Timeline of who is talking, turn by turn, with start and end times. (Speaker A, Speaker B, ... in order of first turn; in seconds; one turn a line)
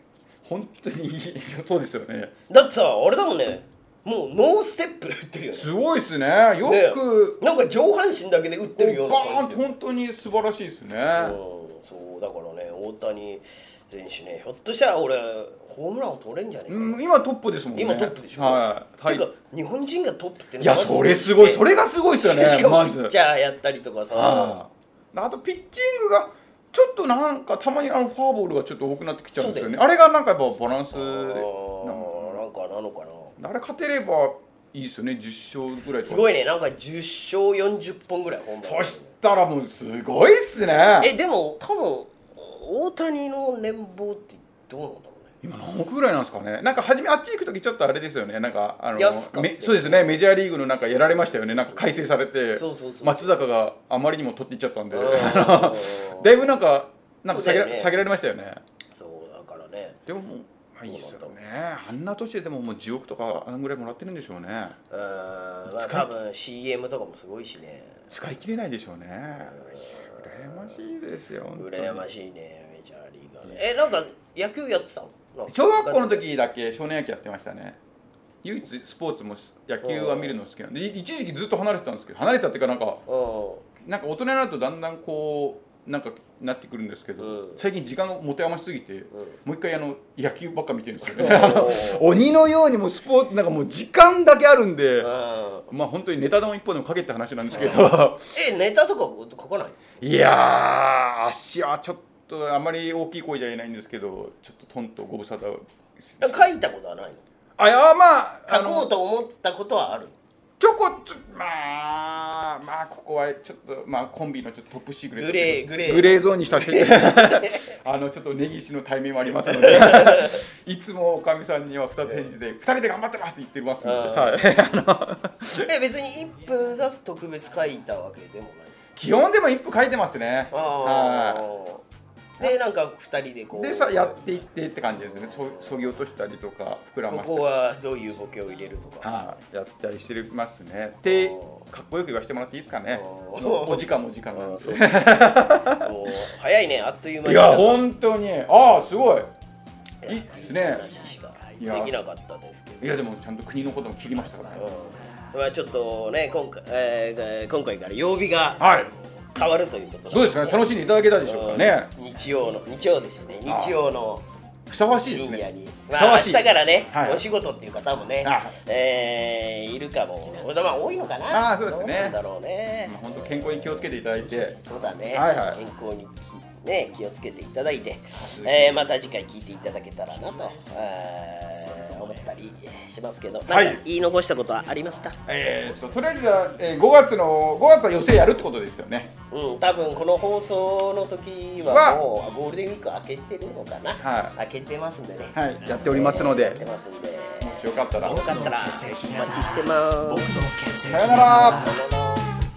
Speaker A: 0.4-2.3
Speaker B: 2.5-5.7
Speaker A: 5.5-7.4
Speaker B: 6.6-9.7
Speaker A: 8.8-11.4
Speaker B: 11.2-17.0
Speaker A: 16.7-19.2
Speaker B: 17.7-21.6
Speaker A: 20.6-23.1
Speaker B: 22.2-24.6
Speaker A: 24.1-32.4
Speaker B: 29.3-29.8
Speaker B: 30.9-33.4
Speaker A: 33.4-36.3
Speaker B: 36.0-39.1
Speaker A: 38.6-41.1
Speaker B: 41.0-45.3
Speaker A: 45.4-58.6
Speaker B: 49.0-50.2
Speaker B: 50.8-53.4
Speaker B: 54.9-56.4
Speaker B: 57.2-57.9
Speaker B: 58.9-60.0
Speaker A: 60.1-64.8
Speaker B: 60.9-61.4
Speaker B: 64.9-68.1
Speaker A: 65.7-66.1
Speaker A: 68.1-72.0
Speaker B: 69.5-70.8
Speaker B: 71.5-76.2
Speaker A: 75.5-77.8
Speaker A: 78.4-83.0
Speaker B: 79.8-80.4
Speaker B: 83.1-83.7
Speaker A: 83.8-95.1
Speaker B: 87.2-87.6
Speaker B: 91.0-92.1
Speaker B: 95.0-95.7
Speaker A: 95.7-98.2
Speaker B: 97.5-99.9
Speaker A: 100.0-106.5
Speaker B: 106.2-107.2
Speaker A: 107.6-108.9
Speaker B: 108.5-110.1
Speaker A: 110.6-125.7
Speaker B: 115.2-117.8
Speaker B: 119.5-120.4
Speaker B: 122.0-122.3
Speaker B: 123.8-124.5
Speaker B: 125.5-128.8
Speaker A: 128.9-131.4
Speaker B: 130.5-131.8
Speaker B: 132.4-134.3
Speaker A: 133.5-137.5
Speaker B: 135.0-135.9
Speaker B: 137.1-139.1
Speaker A: 139.0-146.1
Speaker B: 141.1-141.6
Speaker B: 142.9-147.8
Speaker A: 147.2-149.3
Speaker B: 150.0-152.9
Speaker A: 150.0-150.9
Speaker A: 151.6-152.0
Speaker A: 152.8-154.7
Speaker B: 154.5-160.6
Speaker A: 158.6-158.9
Speaker A: 160.1-161.9
Speaker B: 161.2-164.3
Speaker A: 163.4-163.8
Speaker A: 164.7-167.2
Speaker B: 165.0-185.2
Speaker A: 168.2-168.5
Speaker A: 171.3-172.2
Speaker A: 172.8-175.6
Speaker A: 178.2-179.0
Speaker A: 183.5-183.8
Speaker A: 185.2-189.1
Speaker B: 189.3-200.3
Speaker A: 191.7-192.0
Speaker A: 194.0-194.3
Speaker A: 195.3-196.6
Speaker A: 197.4-198.4
Speaker C: 198.0-201.8
Speaker A: 200.8-201.7
Speaker B: 201.5-202.3